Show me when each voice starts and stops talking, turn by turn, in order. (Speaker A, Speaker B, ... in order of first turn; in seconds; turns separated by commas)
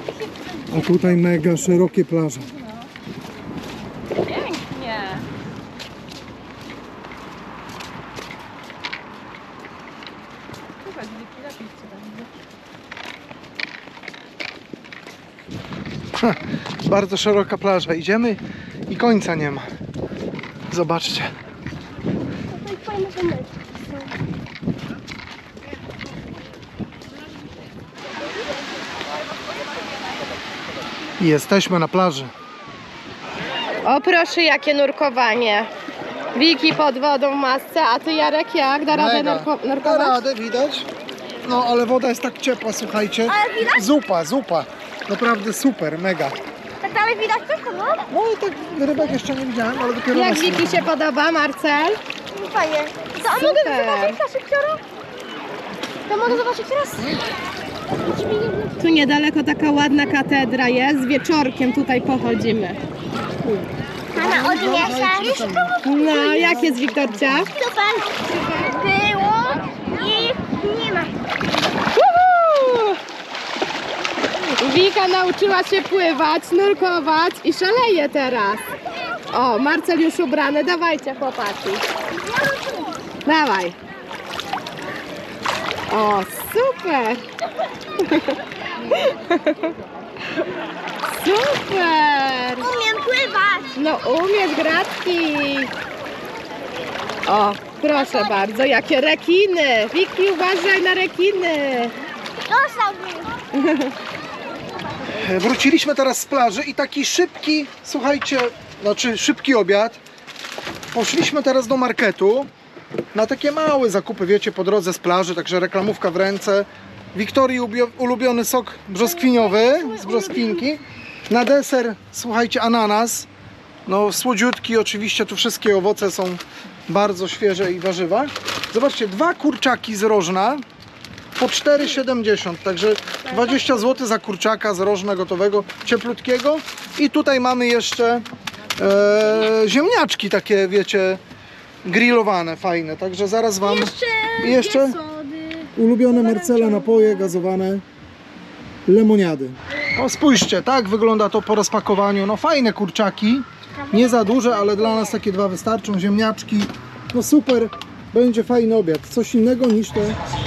Speaker A: 0.7-2.5, Speaker B: 4.2-5.2, Speaker B: 11.1-12.1, Speaker A: 16.1-19.7, Speaker A: 20.7-21.3, Speaker C: 22.5-23.8, Speaker A: 31.2-32.3, Speaker B: 33.8-35.7, Speaker B: 36.3-40.2, Speaker A: 38.9-40.9, Speaker A: 41.4-46.4, Speaker C: 43.3-43.9, Speaker C: 46.8-48.1, Speaker A: 48.1-50.9, Speaker B: 50.1-52.0, Speaker C: 52.3-54.8, Speaker B: 53.3-54.2, Speaker C: 56.1-57.1, Speaker B: 56.1-56.4, Speaker C: 58.0-58.8, Speaker B: 58.8-62.8, Speaker A: 63.4-67.5, Speaker C: 64.1-65.7, Speaker B: 65.8-67.5, Speaker C: 67.5-71.1, Speaker B: 72.0-73.0, Speaker B: 74.6-78.7, Speaker B: 79.3-81.8, Speaker B: 83.3-83.8, Speaker B: 85.9-87.2, Speaker B: 88.0-88.4, Speaker B: 88.9-89.7, Speaker B: 91.1-92.7, Speaker C: 92.6-93.8, Speaker B: 93.8-95.7, Speaker B: 97.3-102.0, Speaker C: 102.5-103.3, Speaker B: 103.6-103.9, Speaker A: 105.2-110.0, Speaker A: 110.9-112.5, Speaker A: 113.1-123.3, Speaker C: 119.8-120.4, Speaker A: 123.9-130.6, Speaker A: 131.4-138.3, Speaker A: 138.8-141.2, Speaker A: 141.8-145.0, Speaker C: 143.6-147.1, Speaker A: 145.8-147.8, Speaker A: 148.9-160.2, Speaker C: 153.9-155.0